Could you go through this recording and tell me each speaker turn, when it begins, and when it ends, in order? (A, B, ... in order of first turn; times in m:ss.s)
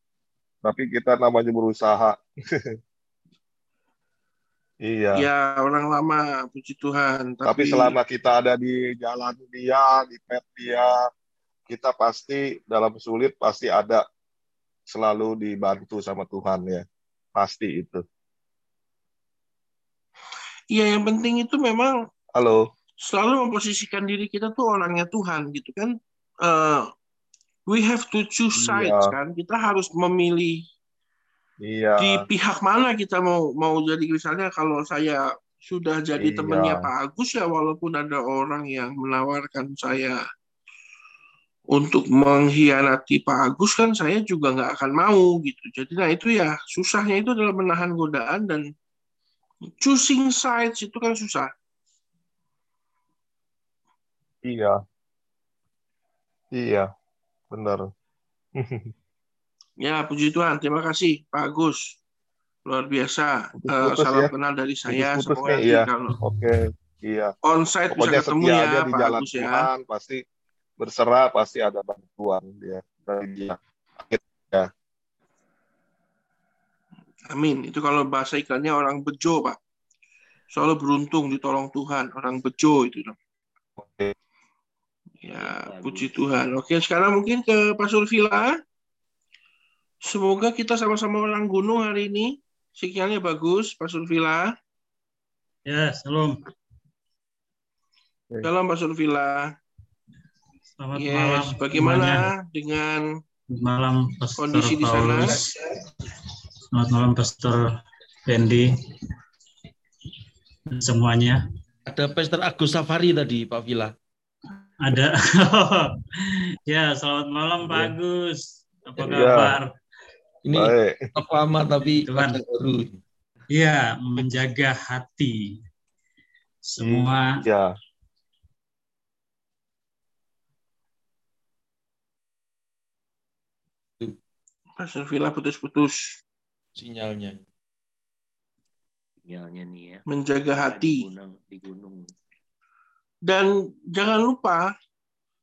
0:00.6-0:02.7 A
0:04.8-0:05.2 A
0:05.2-0:08.0 B
0:07.4-0:10.9 A
0:11.7-0:14.0 A
0:14.9-0:16.8 A
0:17.4-0:18.0 A
0:20.7-0:21.9 B
0:23.1-0:25.9 B
0:26.4-0:26.8 B
0:27.7-0:30.5 B
0:28.6-0:29.1 A
0:31.6-0:32.3 A
0:32.0-0:40.2 B
0:36.2-0:36.9 A
0:41.7-0:48.6 B
0:49.8-0:51.5 B
0:54.4-0:54.8 A
0:56.6-0:56.9 A
0:57.5-0:57.9 A
0:58.6-0:58.8 A
0:59.8-1:02.0 B
1:02.7-1:06.2 B
1:03.6-1:04.3 A
1:04.9-1:07.3 A
1:07.4-1:09.7 B
1:07.9-1:10.2 A
1:10.8-1:14.7 A
1:17.3-1:19.6 B
1:20.5-1:23.2 B
1:23.8-1:24.1 A
1:25.2-1:28.5 B
1:25.3-1:26.2 C
1:30.0-1:34.5 B
1:35.7-1:36.4 D
1:38.4-1:39.5 B
1:40.8-1:42.3 D
1:41.0-1:43.0 B
1:43.5-1:45.6 D
1:44.4-1:45.4 B
1:46.7-1:47.7 D
1:48.3-1:48.7 D
1:50.8-1:51.4 D
1:51.9-1:53.9 E
1:54.8-1:55.8 D
1:56.7-1:59.7 D
1:59.1-1:59.6 A
2:00.5-2:03.0 E
2:00.5-2:01.0 A
2:01.8-2:02.4 D
2:03.5-2:05.5 D
2:06.7-2:07.4 D
2:06.8-2:07.7 A
2:14.8-2:16.2 B
2:16.8-2:17.4 E
2:19.2-2:22.1 C
2:20.1-2:21.1 B
2:23.3-2:24.6 B